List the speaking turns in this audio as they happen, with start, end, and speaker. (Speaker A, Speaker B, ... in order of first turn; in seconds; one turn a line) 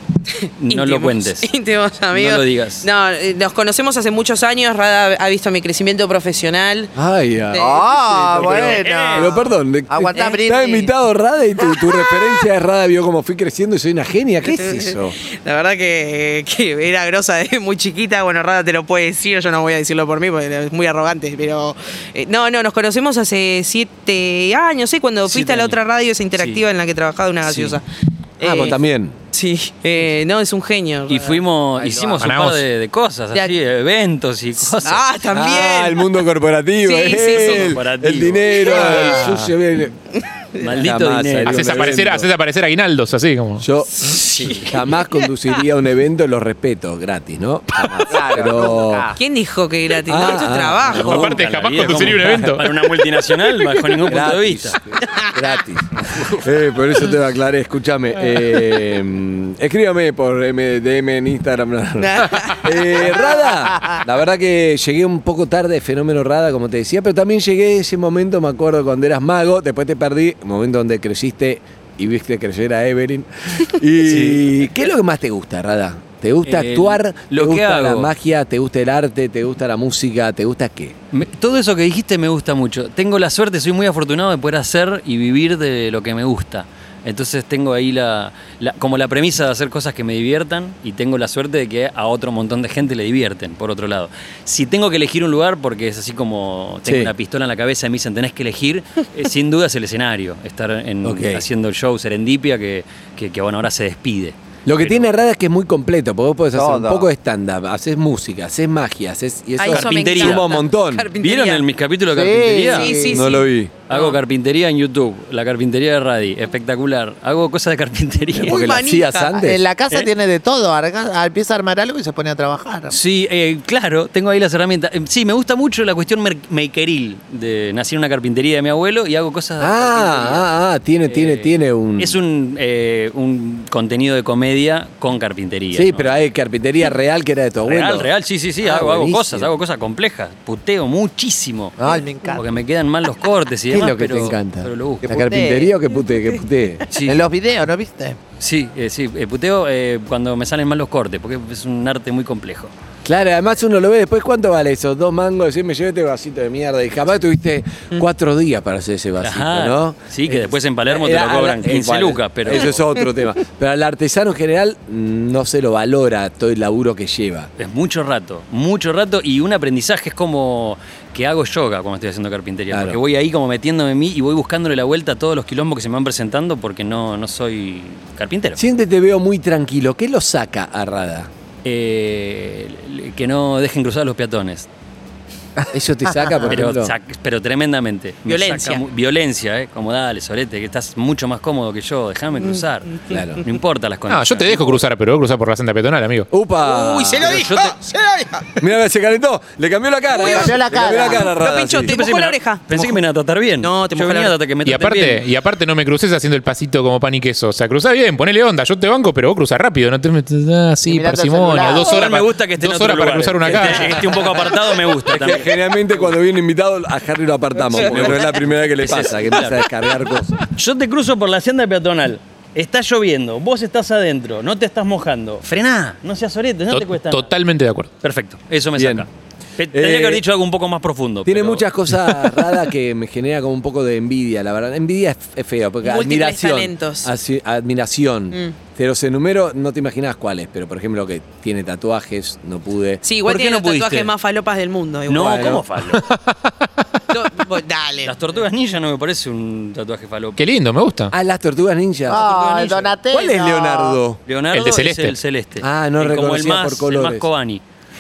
Speaker A: 0.4-6.9
Speaker B: 0.6-1.5
Speaker B: 2.1-2.9
Speaker C: 7.0-15.2
Speaker A: 7.5-7.8
Speaker D: 7.6-10.9
Speaker B: 8.4-9.3
Speaker A: 10.1-10.8
Speaker A: 11.7-12.2
Speaker A: 14.5-27.9
Speaker B: 25.3-25.8
Speaker B: 26.4-26.6
Speaker B: 27.5-27.8
Speaker A: 28.4-28.8
Speaker C: 28.4-29.2
Speaker A: 29.3-31.4
Speaker B: 31.1-35.0
Speaker D: 31.8-32.2
Speaker E: 32.2-32.6
Speaker A: 34.6-36.2
Speaker C: 35.3-40.0
Speaker A: 36.8-37.8
Speaker B: 37.3-39.2
Speaker A: 38.4-39.3
Speaker B: 40.6-42.0
Speaker C: 40.6-42.3
Speaker E: 41.5-43.7
Speaker C: 43.6-49.1
Speaker B: 44.0-44.8
Speaker D: 48.1-49.2
Speaker A: 49.2-51.2
Speaker C: 50.0-51.4
Speaker B: 50.8-54.8
Speaker E: 51.0-52.9
Speaker C: 53.9-81.0
Speaker A: 55.0-55.4
Speaker B: 56.0-56.4
Speaker A: 62.0-63.1
Speaker B: 74.0-74.7
Speaker B: 76.4-78.1
Speaker B: 81.1-105.1
Speaker C: 96.9-97.1
Speaker C: 101.0-101.5
Speaker C: 104.7-111.1
Speaker D: 106.5-107.1
Speaker A: 109.6-111.7
Speaker B: 109.7-110.5
Speaker B: 111.2-113.1
Speaker D: 112.1-113.3
Speaker A: 112.7-114.2
Speaker C: 113.1-113.7
Speaker B: 113.9-118.7
Speaker C: 118.3-119.6
Speaker A: 118.5-119.3
Speaker D: 119.3-123.0
Speaker B: 122.9-130.5
Speaker C: 129.6-132.2
Speaker B: 131.1-136.1
Speaker C: 135.7-138.1
Speaker B: 137.6-141.8
Speaker C: 138.6-139.5
Speaker D: 141.8-142.5
Speaker B: 142.3-145.1
Speaker C: 143.7-146.9
Speaker D: 145.0-145.8
Speaker B: 146.9-147.2
Speaker D: 146.9-148.2
Speaker B: 148.4-152.7
Speaker C: 153.1-167.5
Speaker B: 159.2-162.8
Speaker B: 167.6-178.6
Speaker C: 172.7-173.0
Speaker C: 178.6-181.3
Speaker B: 181.7-184.7
Speaker C: 185.7-186.9
Speaker B: 186.5-194.8
Speaker A: 188.3-188.8
Speaker A: 192.5-193.2
Speaker C: 193.1-193.4
Speaker E: 194.1-196.3
Speaker C: 196.3-197.5
Speaker A: 196.6-198.5
Speaker B: 197.2-197.8
Speaker C: 198.6-202.0
Speaker A: 200.1-203.0
Speaker D: 200.2-201.3
Speaker B: 201.8-205.2
Speaker A: 203.6-204.4
Speaker E: 204.7-214.2
Speaker D: 210.9-212.0
Speaker B: 211.7-216.1
Speaker C: 215.0-220.4
Speaker B: 217.7-219.7
Speaker B: 220.4-227.3
Speaker E: 226.7-227.9
Speaker B: 228.0-232.5
Speaker C: 228.8-229.1
Speaker C: 229.7-230.2
Speaker C: 231.3-243.0
Speaker A: 235.8-237.1
Speaker A: 243.0-245.6
Speaker B: 243.2-244.1
Speaker B: 245.1-246.0
Speaker C: 245.2-245.6
Speaker E: 245.9-246.7
Speaker A: 247.1-248.2
Speaker B: 248.0-250.4
Speaker E: 250.4-251.1
Speaker C: 251.1-252.3
Speaker D: 252.1-254.0
Speaker B: 252.1-252.9
Speaker C: 253.1-254.2
Speaker B: 254.3-257.6
Speaker E: 254.5-255.2
Speaker C: 255.6-257.3